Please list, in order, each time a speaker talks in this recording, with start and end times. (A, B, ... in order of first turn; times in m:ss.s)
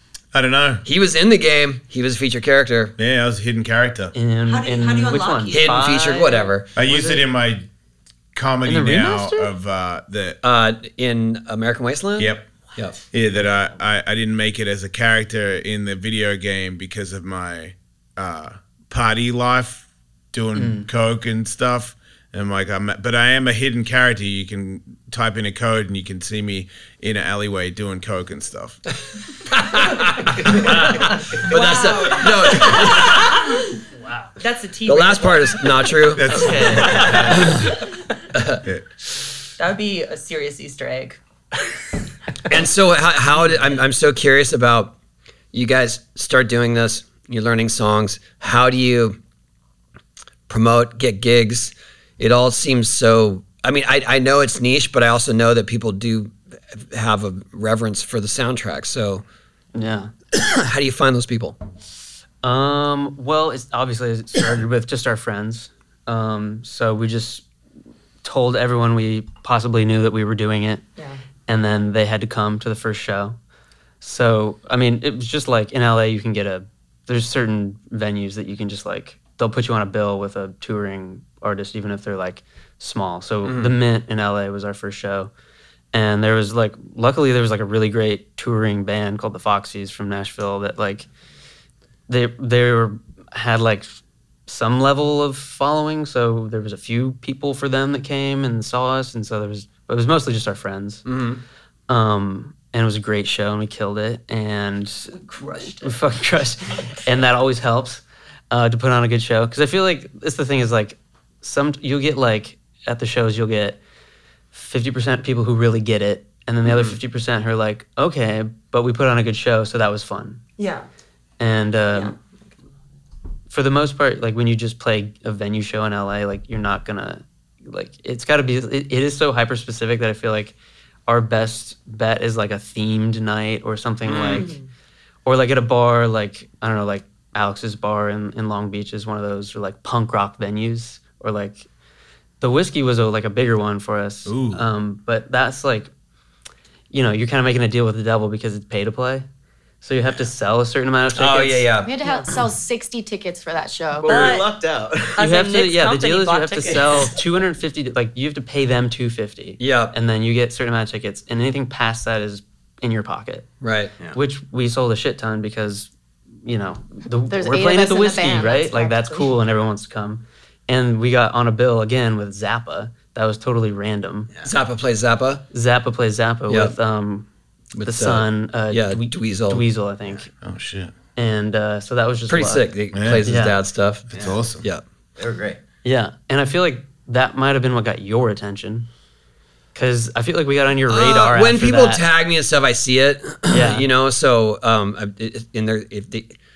0:00.3-0:00.8 A
0:00.8-0:02.9 B
0:03.0-0:04.1 A
0:04.1-0:07.3 C
0:04.5-0:05.7 D
0:05.5-0:06.7 B
0:06.8-0:07.7 A
0:08.3-0:10.4 A
0:08.6-0:09.5 C
0:10.4-0:13.0 B
0:12.2-0:12.5 A
0:13.1-0:28.8 A
0:20.6-0:20.9 C
0:29.5-0:33.4 B
0:31.4-0:33.4 D
0:34.4-0:37.9 D
0:34.9-0:37.7 B
0:36.2-0:37.6 A
0:36.3-0:37.2 C
0:38.3-0:38.6 B
0:39.6-0:41.2 D
0:42.5-0:45.0 B
0:45.5-0:49.2 B
0:50.5-0:59.2 B
0:59.8-1:00.1 C
1:00.3-1:01.6 B
1:02.4-1:07.4 C
1:08.2-1:10.8 C
1:11.5-1:13.4 C
1:14.0-1:25.3 C
1:23.4-1:23.8 B
1:25.9-1:31.1 C
1:32.1-1:41.0 C
1:41.0-1:41.4 B
1:41.9-1:45.1 C
1:45.2-1:45.9 D
1:45.8-1:53.8 C
1:54.5-2:00.4 C
1:56.7-1:57.0 B
2:00.6-2:00.9 D
2:01.4-2:02.1 C
2:01.9-2:02.2 D
2:03.5-2:10.6 C
2:11.1-2:14.5 C
2:14.1-2:14.5 B
2:14.3-2:14.6 D
2:15.2-2:21.7 C
2:22.4-2:25.9 C
2:24.3-2:24.6 A
2:26.9-2:29.3 C
2:29.8-2:32.2 C
2:31.2-2:32.0 B
2:31.8-2:34.3 E
2:34.0-2:35.2 F
2:34.1-2:34.5 D
2:35.2-2:37.1 D
2:35.2-2:43.5 C
2:36.7-2:37.1 F
2:39.6-2:40.0 B
2:43.6-2:43.9 B
2:44.1-2:45.9 C
2:46.4-2:54.3 C
2:47.3-2:49.3 E
2:54.4-2:55.4 B
2:55.5-2:57.3 C
2:56.5-2:56.8 B
2:57.7-2:59.6 B
2:57.8-3:00.3 C
3:00.4-3:00.9 A
3:01.2-3:02.7 C
3:02.3-3:04.1 B
3:02.9-3:03.3 A
3:03.2-3:03.6 C
3:04.1-3:04.7 A
3:04.1-3:04.4 F
3:05.2-3:05.6 F
3:05.8-3:08.9 C
3:09.8-3:12.1 C
3:10.9-3:16.4 B
3:13.5-3:13.9 C